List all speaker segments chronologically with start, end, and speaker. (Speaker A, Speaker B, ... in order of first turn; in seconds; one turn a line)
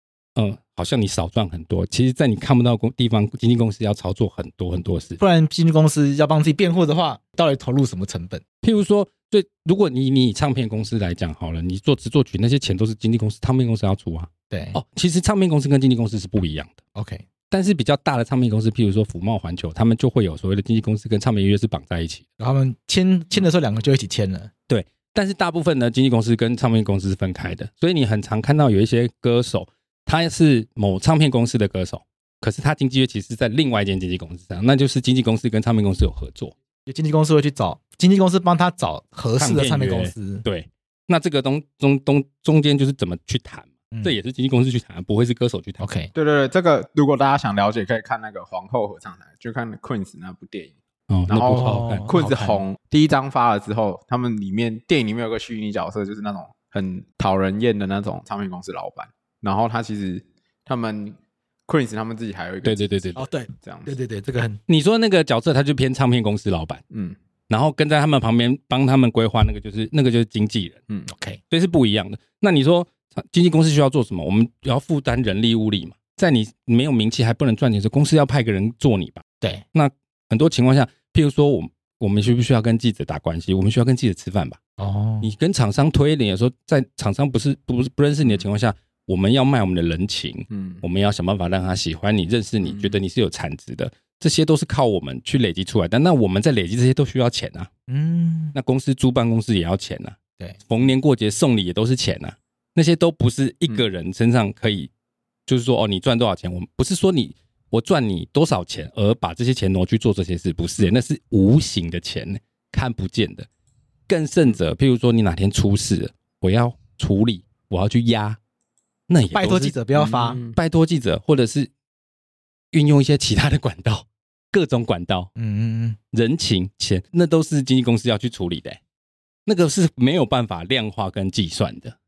Speaker A: 0.3-5.2
Speaker B: 5.2-8.4
Speaker A: 8.6-16.8
Speaker B: 14.5-14.8
Speaker B: 16.9-17.2
Speaker A: 17.5-22.2
Speaker B: 22.4-24.5
Speaker A: 24.7-36.5
Speaker B: 36.9-40.4
Speaker A: 39.4-45.8
Speaker B: 45.8-46.1
Speaker C: 46.1-50.7
Speaker A: 51.1-52.1
Speaker C: 51.3-63.9
Speaker B: 51.5-52.6
Speaker A: 62.6-63.2
Speaker B: 63.1-64.6
Speaker A: 64.7-66.8
Speaker C: 66.9-67.2
Speaker A: 67.5-70.8
Speaker B: 71.1-71.4
Speaker A: 71.5-84.6
Speaker B: 84.8-85.3
Speaker A: 85.2-97.7
Speaker C: 90.5-90.8
Speaker C: 92.6-93.0
Speaker B: 97.9-98.5
Speaker A: 98.5-100.2
Speaker A: 100.7-104.9
Speaker A: 105.5-113.5
Speaker A: 114.1-118.4
Speaker A: 119.1-119.8
Speaker B: 119.3-120.4
Speaker C: 119.9-120.6
Speaker A: 120.5-121.7
Speaker A: 122.7-125.3
Speaker B: 125.3-126.0
Speaker A: 126.1-128.8
Speaker A: 129.4-131.9